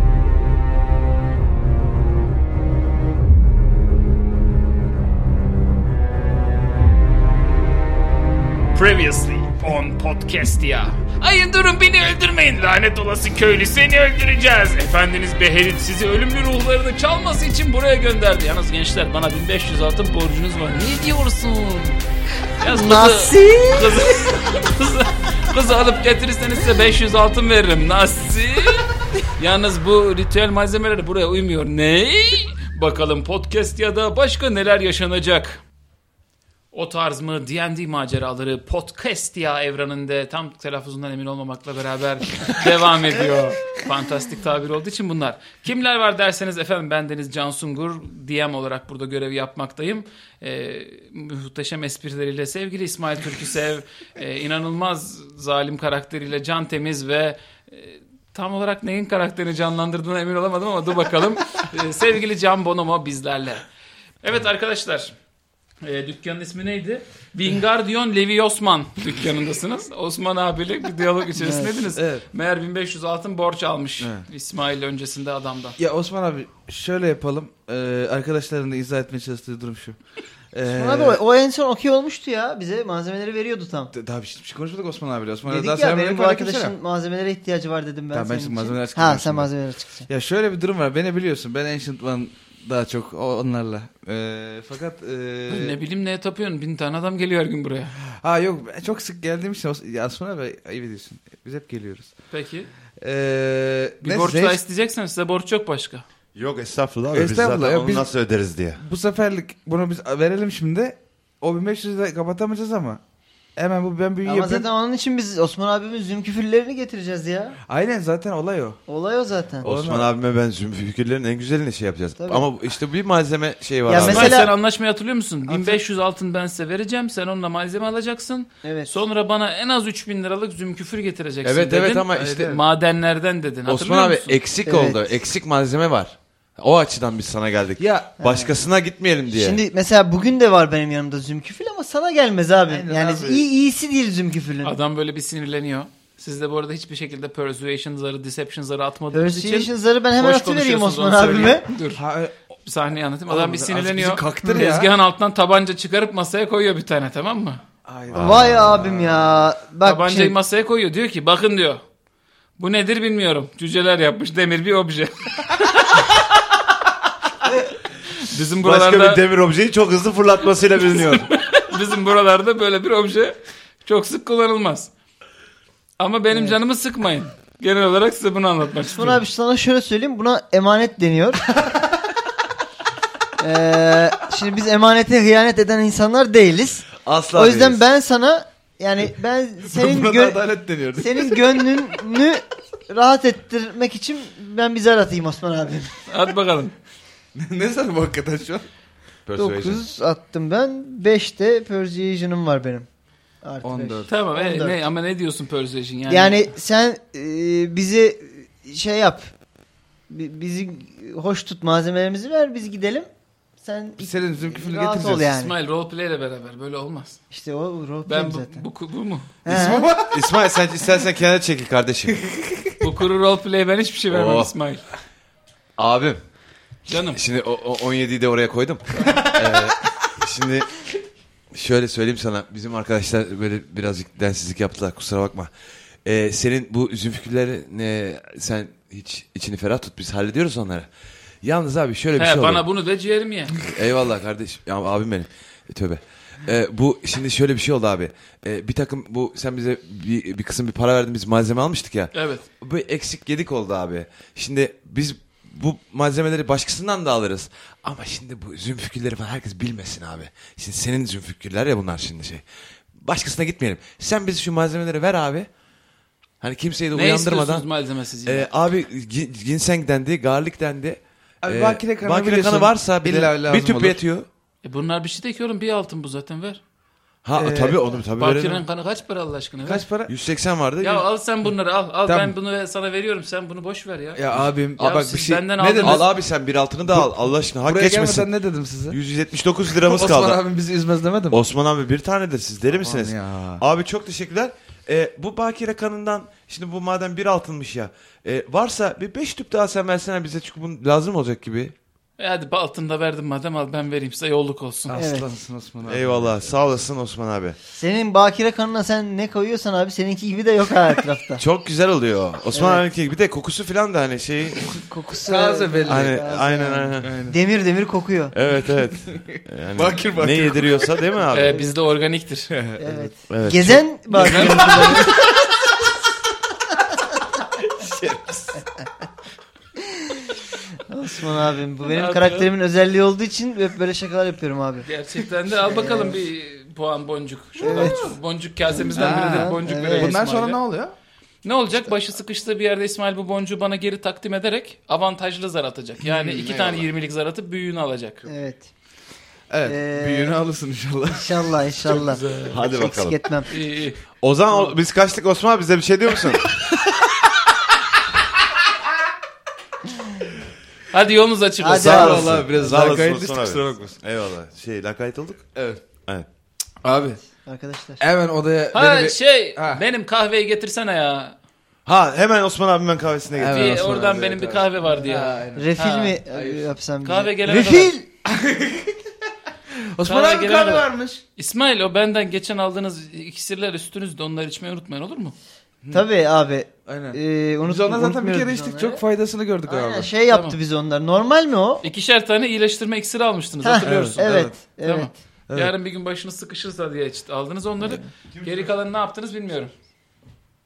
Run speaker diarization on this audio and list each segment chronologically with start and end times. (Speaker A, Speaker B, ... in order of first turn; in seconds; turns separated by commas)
Speaker A: 8.8-22.0, Speaker A: 22.6-35.6, Speaker B: 22.6-24.0, Speaker A: 36.7-63.7, Speaker A: 64.2-65.2, Speaker A: 65.8-75.8, Speaker B: 71.4-71.8, Speaker C: 72.0-72.2, Speaker C: 74.0-74.3, Speaker C: 75.8-80.0, Speaker C: 80.5-81.2, Speaker B: 80.7-83.9, Speaker C: 83.9-86.7, Speaker B: 85.5-90.1, Speaker C: 88.1-89.5, Speaker C: 90.1-95.8, Speaker A: 95.5-97.9, Speaker C: 98.2-102.1, Speaker A: 102.3-102.7, Speaker C: 103.0-104.6, Speaker A: 104.0-106.0, Speaker D: 106.3-108.8, Speaker C: 107.1-108.1, Speaker C: 108.8-113.0, Speaker C: 113.6-114.7, Speaker B: 114.2-117.6, Speaker C: 117.7-118.8, Speaker B: 118.9-119.7, Speaker C: 119.6-120.1, Speaker D: 119.6-124.5, Speaker B: 122.2-122.5, Speaker B: 123.9-124.5, Speaker A: 124.0-134.4, Speaker B: 125.5-125.8, Speaker B: 128.6-128.9, Speaker D: 131.4-132.6, Speaker C: 132.2-132.6, Speaker D: 133.7-139.6, Speaker B: 134.7-135.0, Speaker C: 137.8-138.1, Speaker B: 138.2-138.6, Speaker B: 139.3-144.7, Speaker C: 142.7-143.5, Speaker A: 144.6-152.0, Speaker B: 149.1-151.7, Speaker C: 151.9-152.3, Speaker A: 152.6-157.6, Speaker C: 153.3-154.9, Speaker C: 157.9-159.5, Speaker D: 158.1-158.8, Speaker B: 158.1-160.4, Speaker A: 159.8-161.8, Speaker A: 162.6-166.2, Speaker A: 168.2-169.2, Speaker D: 168.6-171.3, Speaker A: 171.0-174.9, Speaker A: 176.0-179.2, Speaker B: 176.3-176.6, Speaker B: 178.9-181.5, Speaker B: 183.4-190.4, Speaker D: 187.1-187.8, Speaker C: 189.6-191.6, Speaker B: 190.9-195.9, Speaker A: 196.1-196.8, Speaker C: 197.4-198.7, Speaker D: 199.3-199.8, Speaker B: 199.4-202.9, Speaker B: 203.4-204.8, Speaker C: 203.6-204.1, Speaker A: 204.1-206.5, Speaker B: 206.1-209.3, Speaker B: 210.1-213.1, Speaker B: 213.6-215.5, Speaker C: 214.0-215.3, Speaker A: 215.1-217.2, Speaker B: 217.3-218.7, Speaker A: 218.1-219.4, Speaker B: 219.4-219.9, Speaker C: 219.4-220.2, Speaker D: 220.1-222.3, Speaker C: 222.3-222.7, Speaker A: 222.8-224.8, Speaker D: 224.1-224.5, Speaker D: 225.8-226.2, Speaker A: 226.9-227.2, Speaker D: 227.1-230.8, Speaker C: 229.0-229.7, Speaker D: 231.5-235.5, Speaker D: 236.0-240.9, Speaker D: 241.4-242.6, Speaker A: 242.2-243.6, Speaker D: 243.6-262.4, Speaker A: 252.1-252.4, Speaker D: 262.9-265.5, Speaker D: 266.4-267.7, Speaker A: 266.9-268.5, Speaker D: 268.2-274.3, Speaker C: 271.4-274.0, Speaker A: 274.6-276.6, Speaker D: 277.2-278.6, Speaker C: 277.4-277.8, Speaker A: 278.1-279.8, Speaker C: 279.6-280.1, Speaker D: 280.1-281.1, Speaker A: 280.8-286.1, Speaker C: 282.1-282.3, Speaker C: 284.1-286.1, Speaker D: 285.8-288.3, Speaker C: 286.9-289.0, Speaker D: 288.9-290.4, Speaker C: 289.8-291.4, Speaker D: 291.3-301.7, Speaker C: 292.7-293.6, Speaker A: 302.2-305.0, Speaker C: 304.9-306.4, Speaker B: 305.0-305.3, Speaker D: 305.9-307.6, Speaker B: 307.8-311.4, Speaker D: 311.4-314.8, Speaker B: 312.5-312.8, Speaker B: 314.8-318.3, Speaker C: 315.2-316.3, Speaker D: 315.9-317.1, Speaker C: 317.0-317.4, Speaker D: 318.3-321.6, Speaker C: 319.2-321.0, Speaker A: 321.3-322.5, Speaker B: 321.4-321.7, Speaker C: 322.5-323.1, Speaker B: 322.8-325.3, Speaker D: 323.3-324.7, Speaker C: 324.1-325.3, Speaker C: 327.8-328.6, Speaker B: 329.8-330.3, Speaker B: 330.8-334.9, Speaker A: 331.9-332.5, Speaker A: 334.8-340.6, Speaker B: 335.5-336.2, Speaker B: 337.6-338.1, Speaker C: 337.6-338.1, Speaker B: 338.7-340.2, Speaker C: 338.9-340.9, Speaker A: 341.4-348.3, Speaker C: 346.0-346.9, Speaker B: 348.3-348.7, Speaker C: 349.5-351.9, Speaker B: 349.6-350.4, Speaker B: 351.2-353.5, Speaker A: 351.8-352.6, Speaker D: 352.5-353.2, Speaker A: 353.5-354.0, Speaker D: 354.2-356.6, Speaker A: 360.9-362.1, Speaker B: 361.6-362.4, Speaker D: 361.8-365.5, Speaker C: 361.8-363.9, Speaker C: 365.6-365.8, Speaker C: 366.8-367.2, Speaker B: 367.4-368.0, Speaker C: 368.0-369.8, Speaker A: 368.7-371.4, Speaker D: 371.9-373.9, Speaker C: 373.4-375.7, Speaker A: 373.5-376.2, Speaker B: 375.5-378.1, Speaker C: 376.3-376.7, Speaker A: 377.0-377.9, Speaker C: 378.2-379.1, Speaker C: 379.7-381.2, Speaker A: 380.1-385.4, Speaker B: 385.9-389.0, Speaker C: 386.9-390.1, Speaker B: 389.7-391.9, Speaker A: 390.3-390.6, Speaker A: 391.8-399.7, Speaker B: 393.6-395.1, Speaker C: 393.8-394.6, Speaker D: 398.3-398.7